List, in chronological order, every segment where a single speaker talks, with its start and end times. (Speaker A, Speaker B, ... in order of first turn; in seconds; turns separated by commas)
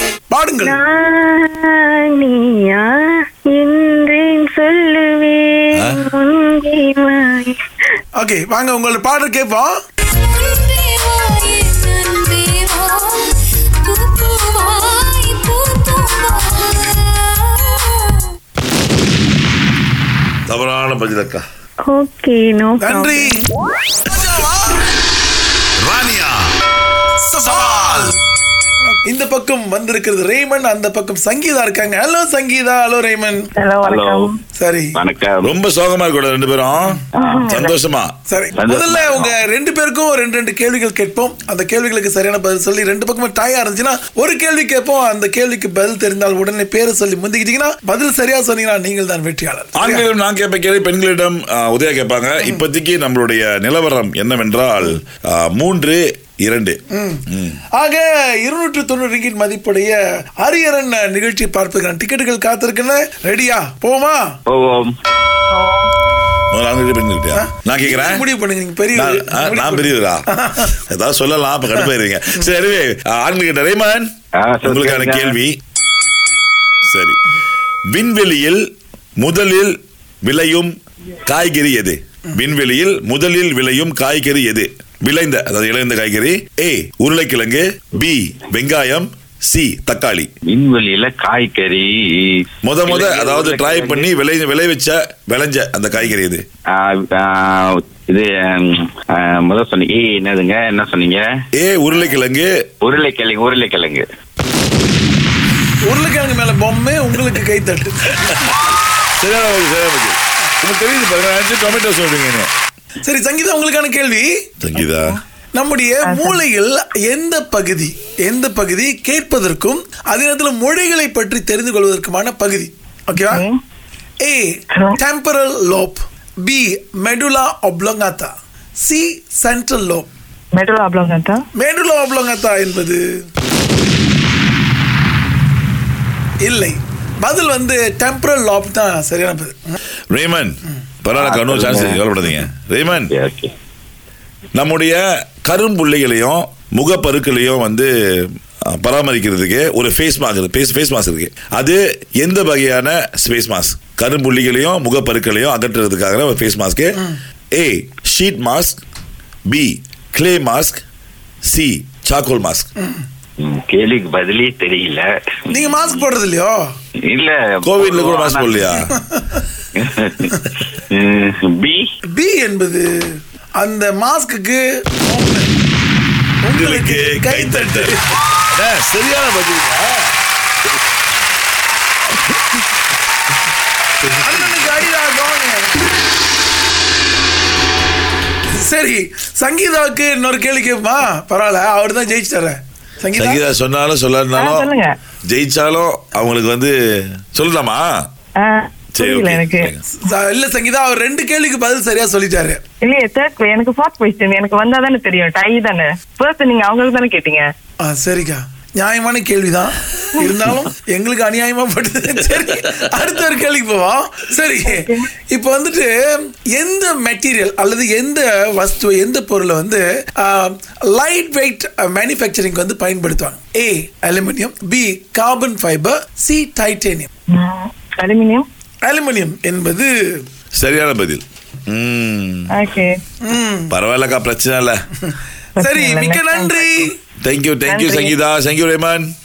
Speaker A: 0.3-0.8, Speaker B: 0.6-7.6, Speaker C: 5.7-6.0, Speaker A: 8.2-9.7, Speaker D: 12.3-12.8, Speaker C: 20.5-21.4, Speaker B: 21.8-23.3, Speaker A: 22.8-23.4, Speaker A: 24.1-24.8, Speaker C: 25.8-26.5, Speaker A: 27.3-28.1, Speaker C: 27.4-28.1, Speaker A: 29.0-33.4, Speaker D: 33.6-34.3, Speaker E: 33.8-34.3, Speaker A: 34.6-35.0, Speaker E: 34.9-35.5, Speaker C: 35.4-38.1, Speaker E: 37.1-37.6, Speaker D: 37.1-37.8, Speaker A: 38.3-50.0, Speaker E: 38.5-39.4, Speaker C: 49.8-56.8, Speaker A: 56.9-64.4, Speaker C: 57.3-57.6, Speaker E: 64.5-64.9, Speaker D: 65.5-65.9, Speaker C: 66.5-68.2, Speaker A: 67.3-70.7, Speaker C: 68.9-74.1, Speaker E: 74.4-75.3, Speaker C: 74.6-75.6, Speaker C: 76.9-77.2, Speaker C: 77.9-78.6, Speaker C: 79.2-80.7, Speaker C: 81.2-90.3, Speaker E: 90.5-94.1, Speaker C: 92.6-96.4, Speaker E: 96.7-101.2, Speaker C: 101.5-102.5, Speaker E: 102.8-104.0, Speaker A: 105.8-108.1, Speaker C: 108.1-108.5, Speaker C: 109.2-112.5, Speaker A: 113.0-114.3, Speaker C: 114.6-115.2, Speaker A: 115.5-123.4, Speaker D: 116.0-116.4, Speaker A: 124.2-128.3, Speaker A: 128.8-130.1, Speaker D: 130.5-131.4, Speaker A: 131.5-133.0, Speaker A: 136.4-139.8, Speaker C: 140.1-143.1, Speaker E: 141.2-142.0, Speaker E: 143.1-143.5, Speaker C: 144.5-157.0, Speaker C: 157.5-158.8, Speaker C: 159.5-160.8, Speaker C: 161.4-162.7, Speaker E: 163.4-166.0, Speaker A: 165.5-166.6, Speaker E: 167.0-168.7, Speaker C: 167.6-168.9, Speaker A: 169.0-169.4, Speaker E: 169.8-170.3, Speaker E: 170.9-171.8, Speaker A: 172.1-175.5, Speaker A: 176.4-178.0, Speaker C: 176.5-178.0, Speaker C: 178.5-180.1, Speaker A: 184.2-185.8, Speaker A: 188.6-193.4, Speaker C: 193.1-194.7, Speaker D: 194.3-194.9, Speaker C: 195.3-198.1, Speaker D: 198.4-199.7, Speaker C: 198.9-199.8, Speaker A: 200.0-202.6, Speaker D: 202.8-207.4, Speaker A: 207.8-227.1, Speaker D: 214.7-215.1, Speaker D: 227.3-228.4, Speaker A: 228.8-230.2, Speaker C: 230.5-232.5, Speaker D: 232.5-232.9, Speaker A: 233.2-233.7, Speaker C: 233.7-234.8, Speaker D: 235.6-236.9, Speaker A: 235.6-236.9, Speaker C: 237.2-239.1, Speaker D: 237.7-238.1